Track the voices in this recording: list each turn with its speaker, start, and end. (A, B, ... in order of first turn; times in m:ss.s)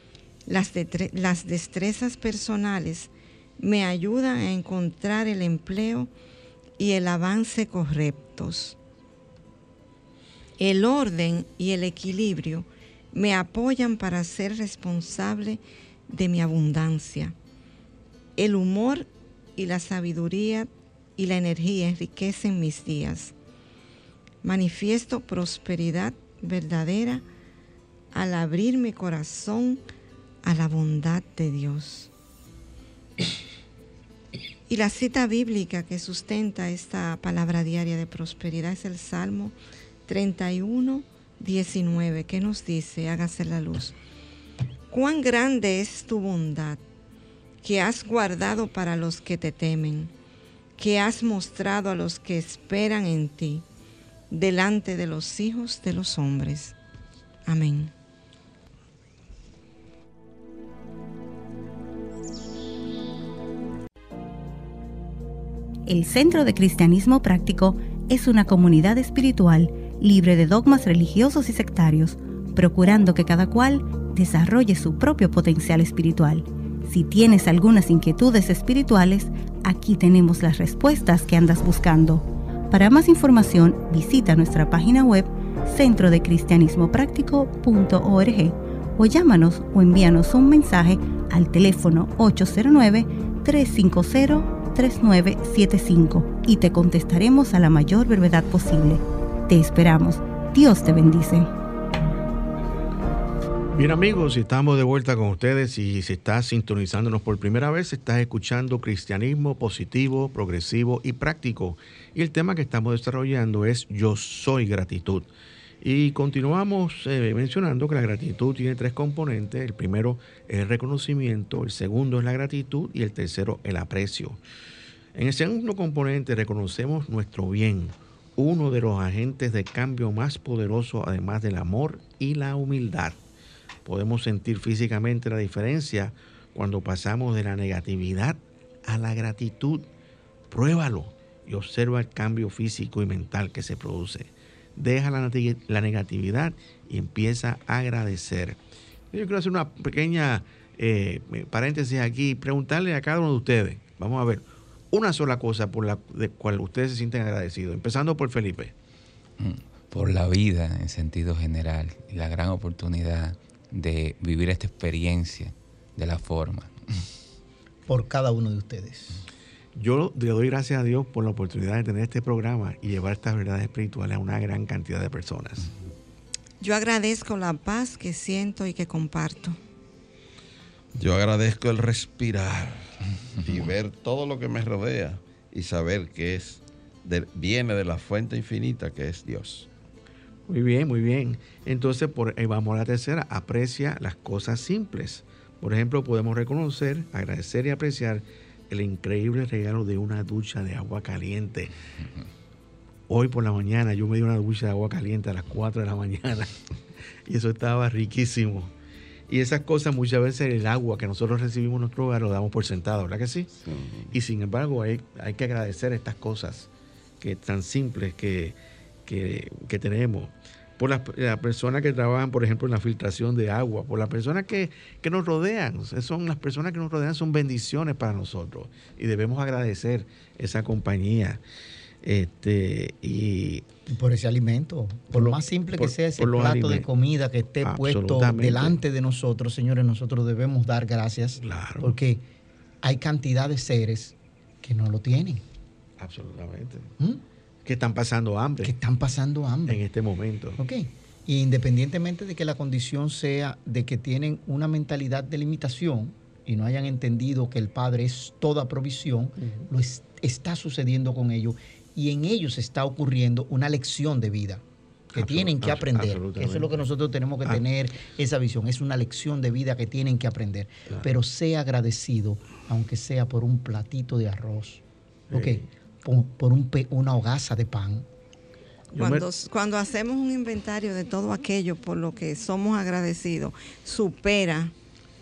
0:00.5-0:06.1 A
0:06.8-0:08.8 A
0:10.6-0:17.4 A
0:18.4-0:23.3 A
0:24.4-0:27.2 A
0:28.1-0:29.8 A
0:30.4-0:32.1 A
0:34.7-0:39.5 A
0:40.0-0:43.9 A
0:44.9-0:46.8 A
0:47.6-0:50.1 A
0:50.8-0:53.6 A
0:54.3-0:56.7 A
0:57.4-0:57.9 A
1:05.9-1:41.5 B
1:43.7-1:55.3 C
1:55.8-2:04.4 C
2:05.1-2:13.2 C
2:13.8-2:19.9 C
2:20.5-2:28.6 C
2:29.1-2:38.7 C
2:39.4-2:47.0 D
2:47.9-2:49.2 E
2:49.7-2:55.7 C
2:56.6-2:59.6 A
3:01.0-3:09.7 F
3:10.5-3:21.7 C
3:23.1-3:26.6 C
3:27.2-3:28.7 C
3:29.3-3:33.5 C
3:33.6-3:34.1 F
3:34.1-3:36.7 C
3:37.2-3:51.4 C
3:52.0-3:53.6 C
3:53.9-4:02.2 E
3:55.1-3:56.9 C
3:57.6-3:58.8 C
4:01.4-4:01.9 C
4:02.8-4:05.4 E
4:06.0-4:06.9 C
4:07.6-4:08.7 C
4:08.6-4:09.8 E
4:09.7-4:10.6 C
4:10.6-4:24.6 E
4:19.4-4:19.7 C
4:25.1-4:38.1 E
4:25.1-4:26.8 C
4:35.3-4:35.6 C
4:38.9-4:39.3 C
4:39.0-4:44.7 A